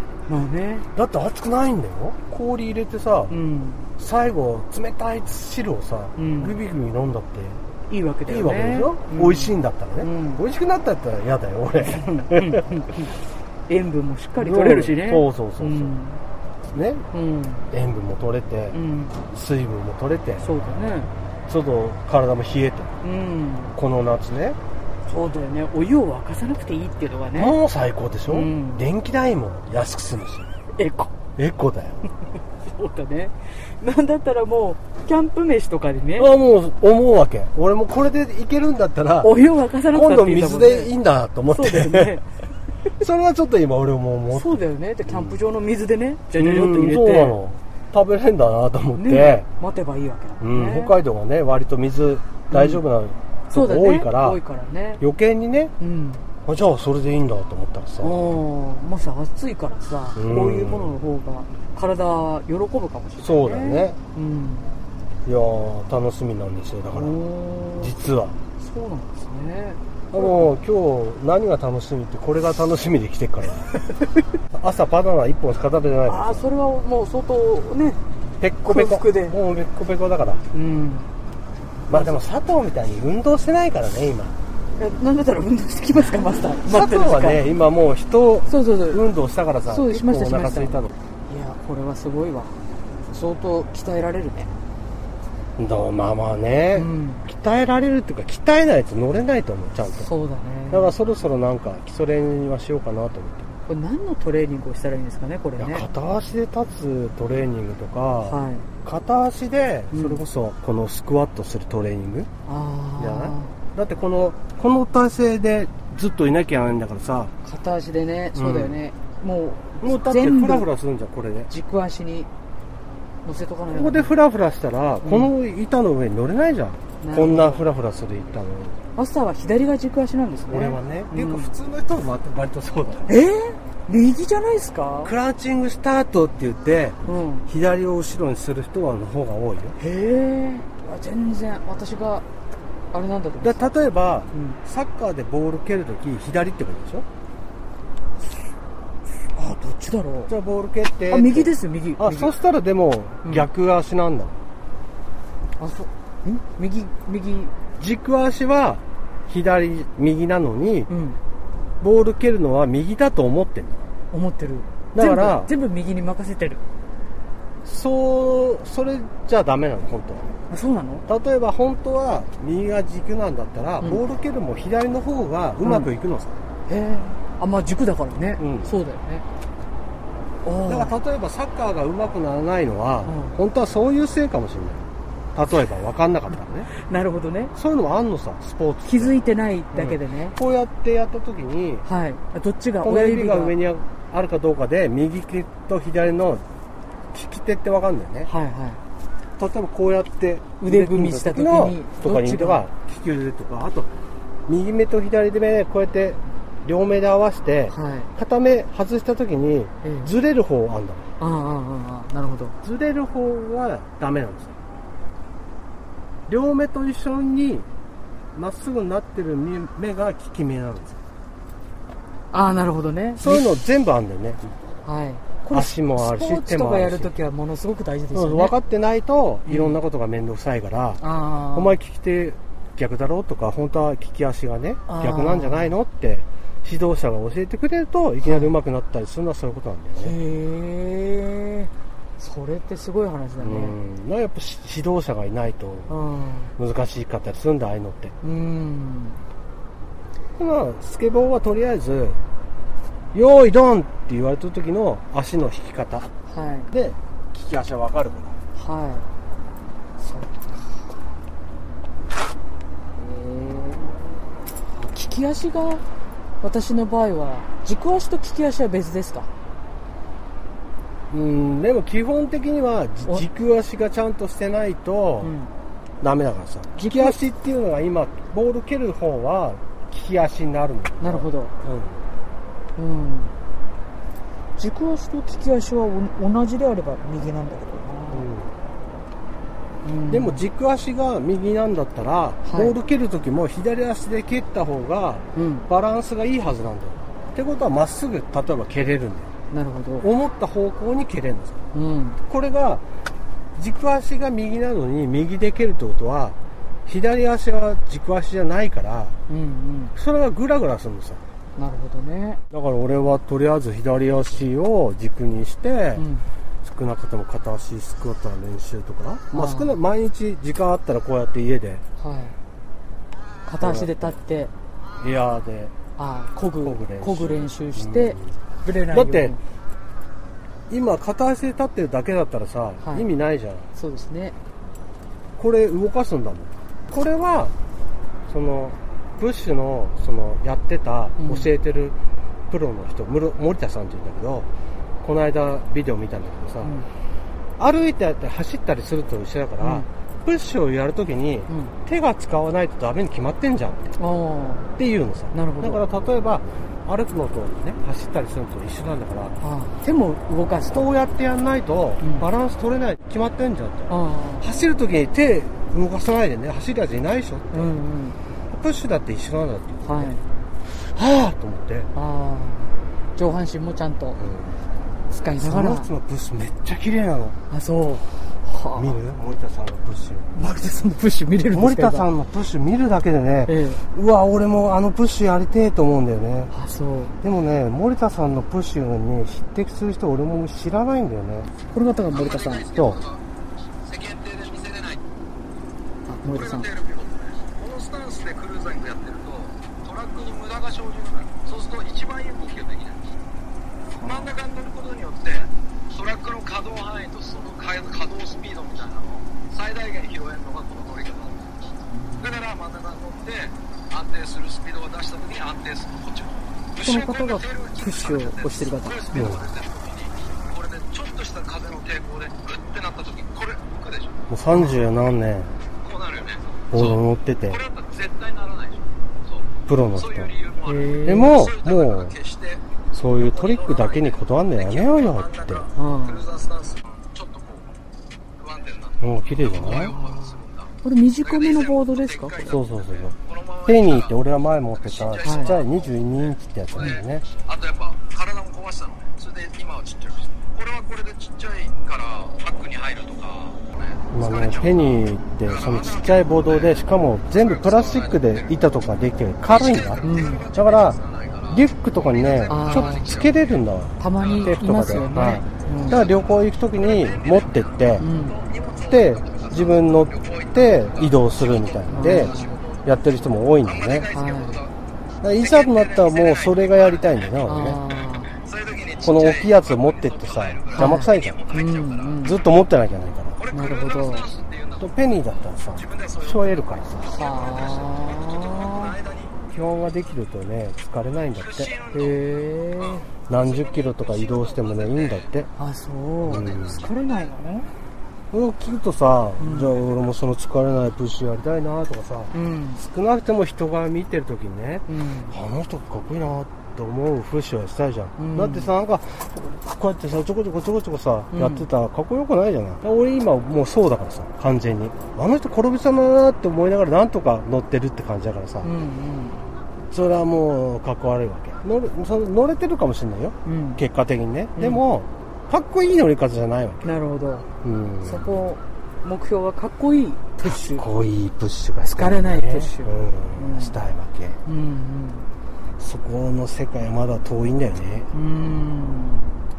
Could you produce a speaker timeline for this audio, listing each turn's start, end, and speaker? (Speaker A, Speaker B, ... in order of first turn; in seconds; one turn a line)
Speaker A: 0.3-0.9
Speaker B: 0.9-3.4
Speaker A: 3.3-3.9
Speaker B: 4.0-7.6
Speaker A: 6.2-6.6
Speaker A: 7.9-10.4
Speaker B: 8.3-12.7
Speaker A: 11.8-13.1
Speaker A: 13.7-16.2
Speaker B: 14.4-15.9
Speaker B: 16.7-17.1
Speaker A: 17.1-17.6
Speaker B: 17.7-18.8
Speaker A: 18.7-19.2
Speaker B: 19.3-20.5
Speaker A: 20.4-21.1
Speaker B: 21.5-22.9
Speaker A: 23.0-23.7
Speaker B: 23.8-24.6
Speaker A: 25.1-27.6
Speaker B: 27.3-30.5
Speaker A: 28.3-28.9
Speaker A: 30.8-31.1
Speaker B: 31.4-32.0
Speaker A: 32.6-36.3
Speaker B: 36.2-39.3
Speaker A: 39.2-40.9
Speaker B: 39.9-42.2
Speaker A: 41.5-42.2
Speaker B: 43.0-45.4
Speaker A: 44.3-47.4
Speaker B: 46.4-49.5
Speaker A: 49.0-50.9
Speaker B: 50.4-54.4
Speaker A: 52.5-52.8
Speaker A: 53.5-55.0
Speaker B: 55.0-55.7
Speaker A: 55.8-56.2
Speaker B: 56.4-58.3
Speaker A: 58.0-64.7
Speaker B: 60.1-61.0
Speaker B: 63.2-64.0
Speaker B: 65.2-67.2
Speaker A: 66.9-67.9
Speaker B: 67.8-68.4
Speaker A: 68.6-70.5
Speaker B: 70.1-73.7
Speaker A: 73.8-74.2
Speaker B: 74.5-76.5
Speaker A: 76.1-78.0
Speaker B: 78.4-80.4
Speaker A: 78.6-79.3
Speaker A: 80.5-81.1
Speaker B: 81.9-84.3
Speaker A: 84.8-87.5
Speaker B: 86.7-90.9
Speaker A: 88.5-89.0
Speaker A: 89.7-92.6
Speaker A: 93.1-94.5
Speaker B: 95.6-100.1
Speaker A: 96.7-97.2
Speaker A: 100.0-100.9
Speaker B: 100.7-103.5
Speaker A: 103.7-105.8
Speaker B: 105.6-112.3
Speaker A: 108.2-108.7
Speaker A: 109.9-110.2
Speaker A: 112.5-113.5
Speaker B: 113.0-117.3
Speaker A: 117.4-120.7
Speaker B: 118.3-118.8
Speaker B: 119.8-121.5
Speaker A: 121.5-122.3
Speaker A: 123.2-124.1
Speaker B: 123.7-128.8
Speaker A: 125.0-125.3
Speaker A: 127.0-127.6
Speaker A: 128.9-131.5
Speaker B: 130.5-133.2
Speaker A: 133.1-135.1
Speaker B: 135.0-139.8
Speaker A: 137.0-137.5
Speaker A: 139.8-142.2
Speaker A: 142.9-143.8
Speaker B: 143.4-147.0
Speaker A: 144.3-144.6
Speaker A: 149.3-150.3
Speaker B: 150.3-154.4
Speaker A: 151.1-152.3
Speaker A: 155.6-157.5
Speaker B: 157.8-160.9
Speaker A: 160.9-161.2
Speaker B: 161.8-163.8
Speaker A: 164.1-166.6
Speaker B: 164.9-165.5
Speaker B: 167.6-170.2
Speaker A: 170.5-171.1
Speaker B: 171.1-176.3
Speaker A: 175.6-175.9
Speaker A: 176.7-179.2
Speaker B: 178.4-178.7
Speaker A: 180.4-180.9
Speaker B: 180.7-186.7
Speaker A: 183.0-183.3
Speaker A: 186.7-187.5
Speaker B: 187.5-189.2
Speaker A: 188.8-190.4
Speaker B: 189.7-191.8
Speaker A: 191.8-193.6
Speaker B: 192.8-196.4
Speaker B: 197.1-198.3
Speaker A: 198.2-198.8
Speaker B: 199.4-203.9
Speaker A: 200.6-202.6
Speaker B: 204.5-211.1
Speaker A: 207.7-208.1
Speaker A: 209.8-210.1
Speaker A: 211.2-212.5
Speaker B: 212.6-214.6
Speaker B: 216.3-217.7
Speaker B: 218.3-221.0
Speaker A: 222.3-223.4
Speaker B: 223.2-224.5
Speaker A: 224.8-228.5
Speaker B: 225.5-227.1
Speaker B: 228.1-231.0
Speaker A: 229.5-229.8
Speaker A: 231.0-231.8
Speaker B: 231.5-240.2
Speaker A: 234.9-235.7
Speaker A: 238.2-238.5
Speaker A: 240.0-243.8
Speaker B: 243.4-245.9
Speaker A: 245.9-246.5
Speaker B: 246.6-248.1
Speaker A: 248.2-249.2
Speaker B: 250.4-252.2
Speaker B: 253.1-256.1
Speaker A: 256.3-256.7
Speaker B: 256.7-258.4
Speaker A: 258.6-259.1
Speaker A: 260.0-260.7
Speaker A: 263.0-264.2
Speaker A: 264.7-265.8
Speaker A: 266.4-269.3
Speaker B: 271.1-275.3
Speaker A: 275.2-275.5
Speaker B: 276.0-282.0
Speaker A: 276.8-277.2
Speaker A: 281.0-281.5
Speaker A: 282.8-283.3
Speaker A: 284.6-288.2
Speaker B: 288.1-288.5
Speaker A: 289.8-290.4
Speaker B: 290.1-299.3
Speaker A: 292.4-292.7
Speaker A: 295.3-295.7
Speaker A: 299.5-300.1
Speaker B: 300.0-301.6
Speaker A: 301.7-302.2
Speaker B: 302.3-302.8
Speaker B: 303.6-309.1
Speaker A: 309.3-309.9
Speaker B: 309.9-311.2
Speaker A: 311.6-312.4
Speaker B: 312.5-316.0
Speaker A: 315.9-316.2
Speaker B: 316.6-321.8
Speaker A: 319.3-319.8
Speaker A: 322.0-322.4
Speaker A: 323.4-324.5
Speaker B: 323.6-324.2
Speaker B: 325.0-325.7
Speaker A: 326.0-329.4
Speaker B: 326.6-328.4
Speaker B: 328.9-329.4
Speaker B: 330.7-333.7
Speaker A: 332.8-333.1
Speaker A: 333.7-334.4
Speaker B: 335.4-337.5
Speaker B: 338.3-341.9
Speaker A: 341.2-341.5
Speaker B: 342.5-344.5
Speaker B: 345.0-346.7
Speaker A: 346.6-346.9
Speaker B: 347.6-353.9
Speaker A: 349.6-349.9
Speaker A: 351.5-351.7
Speaker A: 354.0-354.7
Speaker B: 354.8-359.4
Speaker A: 355.3-355.8
Speaker A: 359.4-360.9
Speaker B: 360.7-367.7
Speaker A: 362.0-362.3
Speaker A: 363.9-364.4
Speaker A: 367.5-368.2
Speaker B: 368.5-370.1
Speaker A: 369.8-370.2
Speaker B: 370.9-371.9
Speaker A: 371.9-374.2
Speaker B: 374.2-374.6
Speaker A: 375.1-375.9
Speaker B: 375.4-377.4
Speaker A: 377.5-379.0
Speaker B: 378.8-380.4
Speaker A: 380.3-382.1
Speaker B: 381.5-386.5
Speaker A: 383.5-383.8
Speaker A: 386.5-387.1
Speaker B: 387.2-391.5
Speaker A: 391.7-392.6
Speaker C: 392.1-393.2
Speaker B: 392.7-393.0
Speaker C: 393.8-395.0
Speaker A: 396.1-396.7
Speaker C: 396.3-403.1
Speaker A: 403.9-404.3
Speaker C: 404.0-411.5
Speaker A: 411.9-412.4
Speaker C: 412.2-424.2
Speaker A: 416.8-419.3
Speaker B: 419.1-419.4
Speaker B: 424.3-425.6
Speaker A: 424.5-424.9
Speaker C: 425.8-432.6
Speaker B: 426.7-427.6
Speaker B: 429.7-430.3
Speaker A: 430.6-431.4
Speaker B: 431.0-432.1
Speaker B: 432.9-435.6
Speaker C: 433.2-437.7
Speaker A: 435.7-436.2
Speaker C: 438.4-440.7
Speaker B: 439.0-439.9
Speaker A: 439.6-442.5
Speaker C: 441.2-444.2
Speaker B: 442.4-443.1
Speaker B: 443.6-447.2
Speaker C: 444.7-458.5
Speaker A: 445.2-445.5
Speaker B: 454.1-461.0
Speaker C: 459.5-463.4
Speaker A: 460.0-460.5
Speaker B: 461.5-468.1
Speaker A: 462.5-463.1
Speaker A: 464.0-466.0
Speaker C: 464.2-465.1
Speaker C: 465.9-474.7
Speaker A: 468.0-468.4
Speaker B: 468.9-474.1
Speaker A: 471.9-472.6
Speaker A: 474.1-474.6
Speaker B: 475.2-477.8
Speaker C: 475.4-477.3
Speaker A: 477.4-478.3
Speaker C: 478.3-482.2
Speaker B: 479.0-481.4
Speaker A: 480.7-482.4
Speaker B: 482.2-483.4
Speaker C: 483.4-484.9
Speaker A: 483.5-484.3
Speaker B: 484.8-487.1
Speaker C: 485.7-489.4
Speaker A: 487.1-488.9
Speaker B: 489.5-491.7
Speaker C: 491.4-492.2
Speaker A: 491.9-493.1
Speaker C: 492.8-495.3
Speaker B: 493.3-495.5
Speaker A: 495.6-497.7
Speaker C: 496.2-497.3
Speaker B: 496.3-496.9
Speaker B: 498.3-518.7
Speaker A: 499.4-499.8
Speaker A: 502.3-502.8
Speaker A: 504.9-505.3
Speaker A: 508.2-508.7
Speaker A: 511.3-511.7
Speaker A: 518.6-519.4
Speaker B: 519.9-526.9
Speaker A: 523.4-523.8
Speaker A: 524.5-524.8
Speaker A: 526.8-527.5
Speaker B: 527.6-528.3
Speaker A: 528.0-530.9
Speaker B: 530.5-534.4
Speaker A: 531.9-533.8
Speaker A: 534.5-535.3
Speaker B: 535.8-538.1
Speaker A: 538.1-539.3